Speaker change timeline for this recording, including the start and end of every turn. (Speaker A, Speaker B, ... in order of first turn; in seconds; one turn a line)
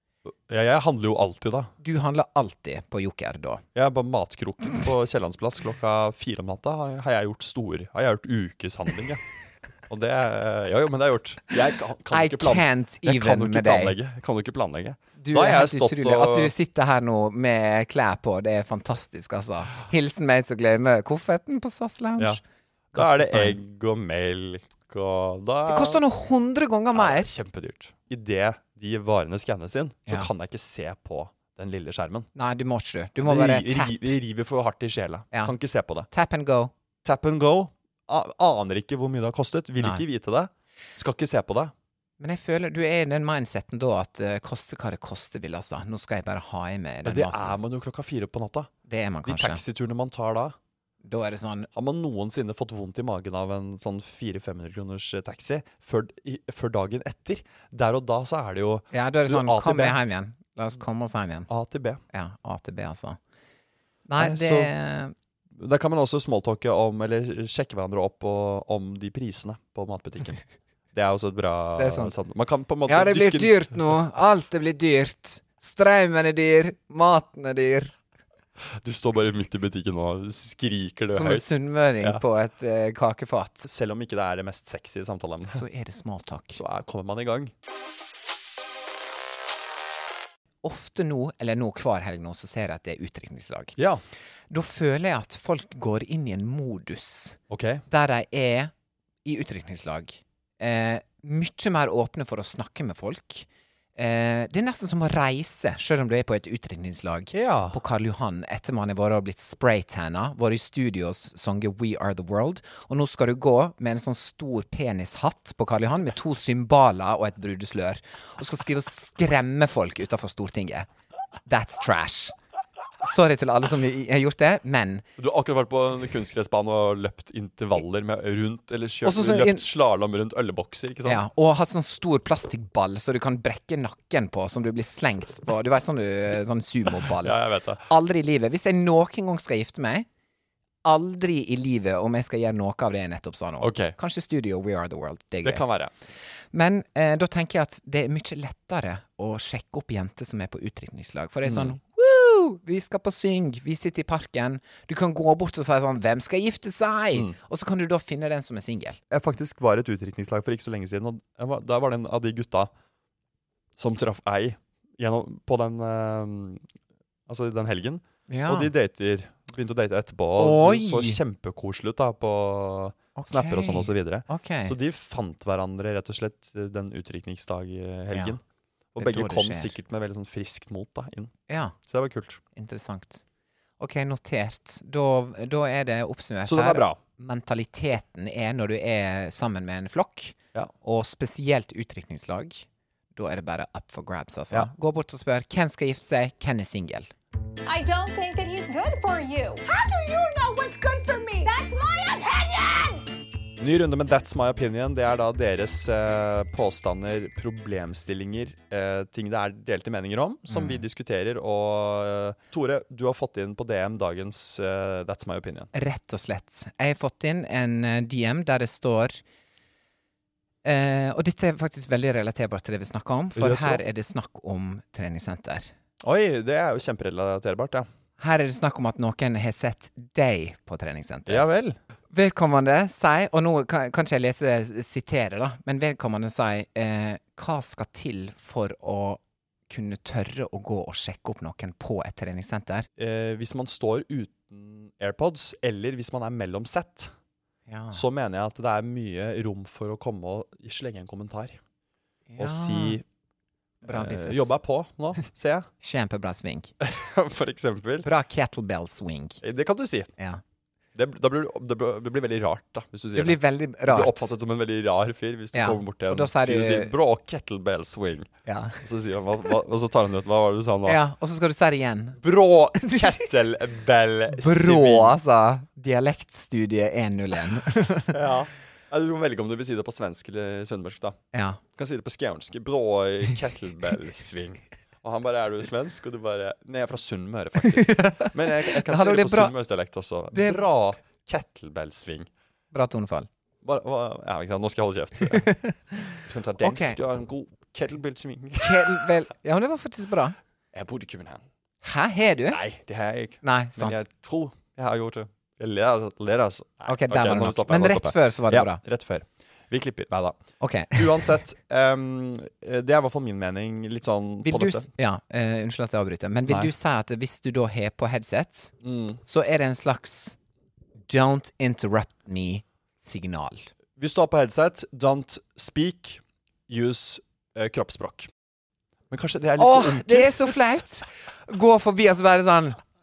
Speaker A: 0.3-1.7
Speaker B: 1.8-3.6
Speaker A: 3.8-9.2
Speaker A: 9.9-16.5
Speaker B: 12.1-13.9
Speaker B: 15.2-22.4
Speaker A: 22.9-26.0
Speaker B: 22.9-23.6
Speaker B: 25.7-27.3
Speaker A: 26.9-32.3
Speaker B: 32.4-34.1
Speaker A: 33.2-36.1
Speaker B: 36.1-36.7
Speaker A: 37.0-41.7
Speaker B: 42.2-47.6
Speaker A: 47.0-48.7
Speaker B: 48.9-49.6
Speaker A: 49.3-50.5
Speaker B: 51.0-51.7
Speaker A: 51.8-60.0
Speaker B: 58.9-61.5
Speaker A: 61.5-62.0
Speaker B: 62.1-63.2
Speaker B: 64.1-65.1
Speaker A: 64.2-64.7
Speaker A: 65.6-70.4
Speaker A: 70.9-73.8
Speaker B: 71.8-72.1
Speaker B: 72.9-78.0
Speaker A: 78.8-81.5
Speaker B: 81.1-83.7
Speaker A: 83.6-85.6
Speaker B: 85.5-86.6
Speaker A: 86.5-87.5
Speaker B: 90.6-93.8
Speaker A: 93.8-94.0
Speaker B: 94.5-98.7
Speaker A: 97.5-97.8
Speaker B: 99.2-120.9
Speaker A: 107.3-107.8
Speaker B: 121.5-122.3
Speaker B: 123.0-125.0
Speaker A: 125.2-131.2
Speaker B: 129.0-129.6
Speaker B: 131.1-140.1
Speaker A: 137.1-137.9
Speaker B: 140.8-145.6
Speaker A: 143.6-144.0
Speaker A: 145.4-145.9
Speaker B: 146.5-159.0
Speaker A: 151.5-151.8
Speaker A: 159.1-162.7
Speaker A: 163.8-166.6
Speaker A: 167.3-178.4
Speaker B: 168.3-168.7
Speaker B: 170.4-171.2
Speaker B: 173.2-174.8
Speaker A: 178.9-181.3
Speaker B: 179.0-179.7
Speaker B: 181.5-181.8
Speaker A: 181.8-182.4
Speaker B: 182.6-183.2
Speaker B: 183.8-197.1
Speaker A: 186.5-187.0
Speaker C: 197.7-203.1
Speaker A: 203.6-215.7
Speaker B: 210.5-210.8
Speaker B: 215.7-219.2
Speaker B: 220.6-225.7
Speaker A: 223.4-223.8
Speaker A: 226.0-227.9
Speaker B: 228.2-231.5
Speaker A: 231.3-231.8
Speaker B: 232.1-242.9
Speaker A: 243.0-247.1
Speaker B: 247.7-248.0
Speaker A: 247.9-251.6
Speaker B: 252.3-253.0
Speaker A: 252.4-253.0
Speaker A: 253.8-255.7
Speaker B: 253.8-254.5
Speaker B: 255.8-256.7
Speaker A: 256.8-258.1
Speaker B: 258.1-259.4
Speaker A: 259.4-260.1
Speaker A: 260.9-271.0
Speaker B: 263.1-264.3
Speaker B: 265.5-266.9
Speaker B: 268.5-268.8
Speaker B: 270.9-272.2
Speaker A: 272.2-275.2
Speaker B: 272.8-273.2
Speaker B: 274.3-278.2
Speaker A: 278.1-281.2
Speaker B: 281.3-281.6
Speaker A: 281.8-292.3
Speaker B: 287.7-289.5
Speaker B: 290.3-290.6
Speaker B: 292.7-293.3
Speaker A: 293.6-295.5
Speaker B: 295.3-297.0
Speaker A: 296.2-299.1
Speaker B: 298.6-300.4
Speaker A: 300.7-301.4
Speaker B: 301.8-302.6
Speaker A: 302.5-314.9
Speaker B: 303.4-304.0
Speaker B: 306.9-308.8
Speaker B: 310.6-311.4
Speaker B: 314.4-318.7
Speaker A: 318.8-319.2
Speaker B: 319.2-320.4
Speaker B: 321.1-323.7
Speaker A: 324.0-328.3
Speaker A: 329.1-330.6
Speaker B: 329.6-332.8